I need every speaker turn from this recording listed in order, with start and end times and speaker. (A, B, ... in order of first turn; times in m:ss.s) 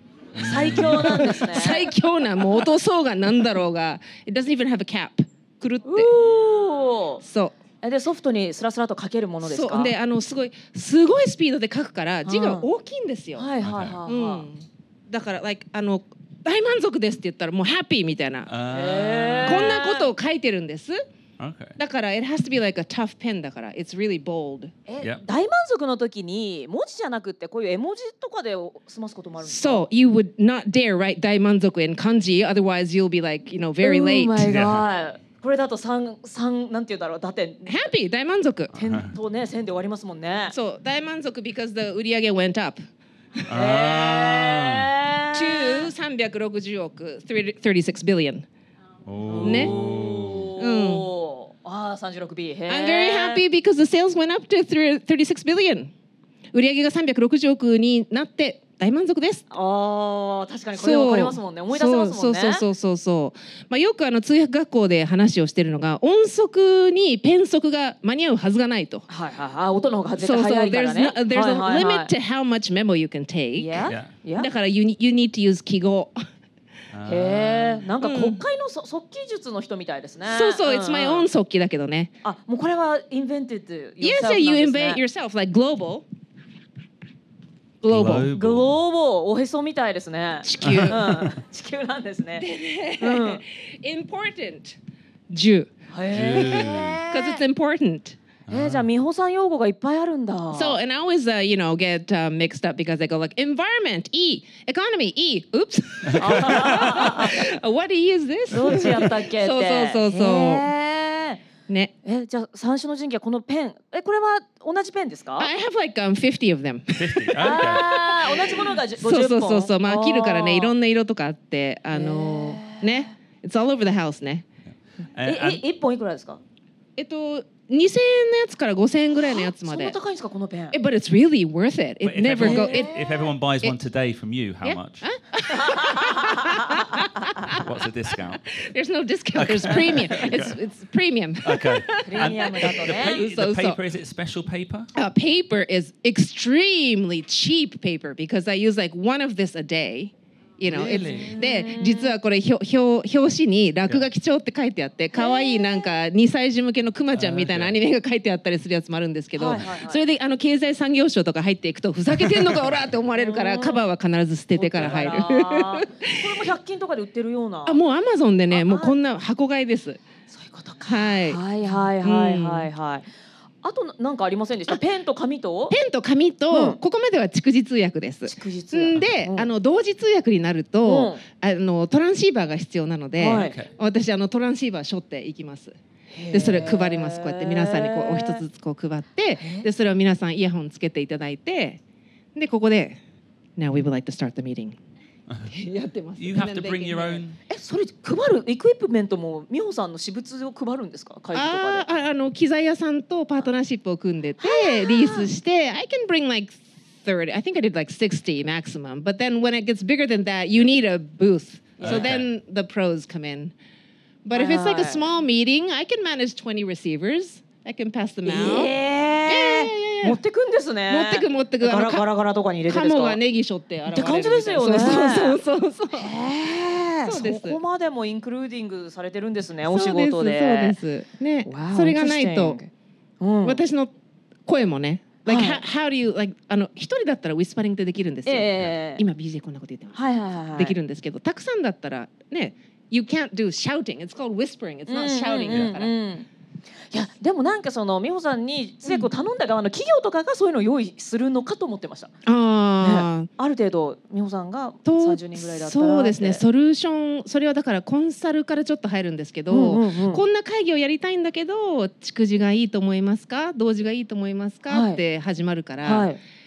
0:00.4-0:01.2 A
0:00.4-0:01.9 B
0:00.7-0:06.1 C
0:05.8-0:07.2 B
0:07.2-0:07.6 C
0:07.8-0:09.9 B
0:09.4-0:13.5 C
0:12.2-0:12.7 B
0:13.3-0:14.5 B
0:13.6-0:14.0 A
0:14.0-0:18.5 C
0:18.5-0:19.8 A
0:18.7-0:20.1 B
0:19.4-0:21.0 C
0:21.4-0:21.8 A
0:21.8-0:24.7 C
0:24.9-0:29.8 B
0:29.4-0:34.6 C
0:33.8-0:37.8 B
0:34.4-0:34.8 A
0:37.6-0:38.7 C
0:38.7-0:40.6 B
0:38.8-0:39.1 A
0:40.5-0:42.8 C
0:43.5-0:44.9 A
0:43.5-0:45.9 B
0:45.3-0:48.4 C
0:49.0-0:50.5 A
0:49.3-0:53.4 B
0:49.4-0:49.8 C
0:50.6-0:51.1 C
0:52.7-0:55.9 C
0:56.5-0:59.4 C
0:59.5-1:02.6 B
1:00.7-1:09.0 C
1:09.1-1:12.1 B
1:10.2-1:13.8 C
1:13.5-1:14.5 B
1:14.4-1:16.2 C
1:16.9-1:17.8 A
1:17.1-1:21.3 B
1:18.0-1:18.4 C
1:20.2-1:22.1 C
1:22.2-1:25.0 B
1:24.0-1:26.0 C
1:27.8-1:28.3 C
1:27.9-1:28.7 A
1:28.3-1:32.5 B
1:30.4-1:31.2 C
1:30.6-1:31.1 A
1:32.4-1:34.8 C
1:33.0-1:33.4 B
1:35.3-1:38.2 C
1:35.9-1:37.4 B
1:36.1-1:37.0 A
1:38.5-1:38.8 A
1:38.5-1:40.8 B
1:40.5-1:50.7 C
1:46.2-1:47.4 B
1:48.5-1:51.4 B
1:51.7-1:51.9 C
1:52.0-1:55.5 B
1:55.4-2:04.4 C
1:57.0-1:57.9 A
1:57.4-2:00.7 B
2:01.9-2:03.1 B
2:05.2-2:05.6 A
2:05.2-2:06.4 B
2:07.0-2:10.0 C
2:09.3-2:10.8 B
2:10.7-2:13.0 C
2:12.0-2:15.1 A
2:12.4-2:13.2 B
2:14.6-2:23.8 C
2:15.5-2:17.0 B
2:17.5-2:18.5 A
2:19.3-2:20.6 A
2:21.4-2:24.9 A
2:22.0-2:23.2 B
2:24.9-2:46.3 C
2:30.6-2:31.3 A
2:31.1-2:32.2 B
2:35.2-2:35.8 B
2:37.1-2:37.8 A
2:39.4-2:40.0 B
2:42.4-2:42.7 A
2:43.1-2:43.8 B
2:44.5-2:47.8 B
2:47.6-2:50.0 C
2:48.5-2:49.0 B
2:50.3-2:53.1 B
2:50.8-2:52.7 C
2:53.6-2:55.8 B
2:55.7-3:05.8 C
2:56.5-2:56.8 B
2:58.2-2:59.5 B
3:00.8-3:01.2 B
3:03.2-3:03.6 B
3:03.3-3:03.7 A
3:06.1-3:08.4 B
3:06.3-3:11.8 C
3:09.4-3:09.7 B
3:12.3-3:13.0 C
3:13.6-3:14.8 C
3:15.5-3:17.2 C
3:16.2-3:17.4 A
3:17.5-3:21.9 B
3:21.3-3:33.5 C
3:24.4-3:25.3 B
3:31.8-3:32.1 B
3:31.8-3:32.2 A
3:34.2-3:38.7 C
3:34.3-3:35.0 B
3:38.2-3:43.2 B
3:39.3-3:40.2 C
3:40.9-3:42.1 C
3:42.6-3:46.1 C
3:43.9-3:45.4 B
3:45.9-3:50.8 B
3:47.0-3:47.6 C
3:49.6-3:52.6 C
3:51.4-3:53.6 B
3:53.4-3:53.9 C
3:54.5-4:00.0 C
3:55.2-3:55.6 B
3:58.2-3:59.0 B
3:59.9-4:00.8 B
4:00.5-4:05.9 C
4:04.9-4:06.3 B
4:06.9-4:12.1 B
4:08.8-4:09.1 C
4:12.2-4:13.3 C
4:12.8-4:16.4 B
4:14.8-4:26.1 C
4:19.5-4:20.2 B
4:24.7-4:25.0 B
4:25.8-4:26.2 B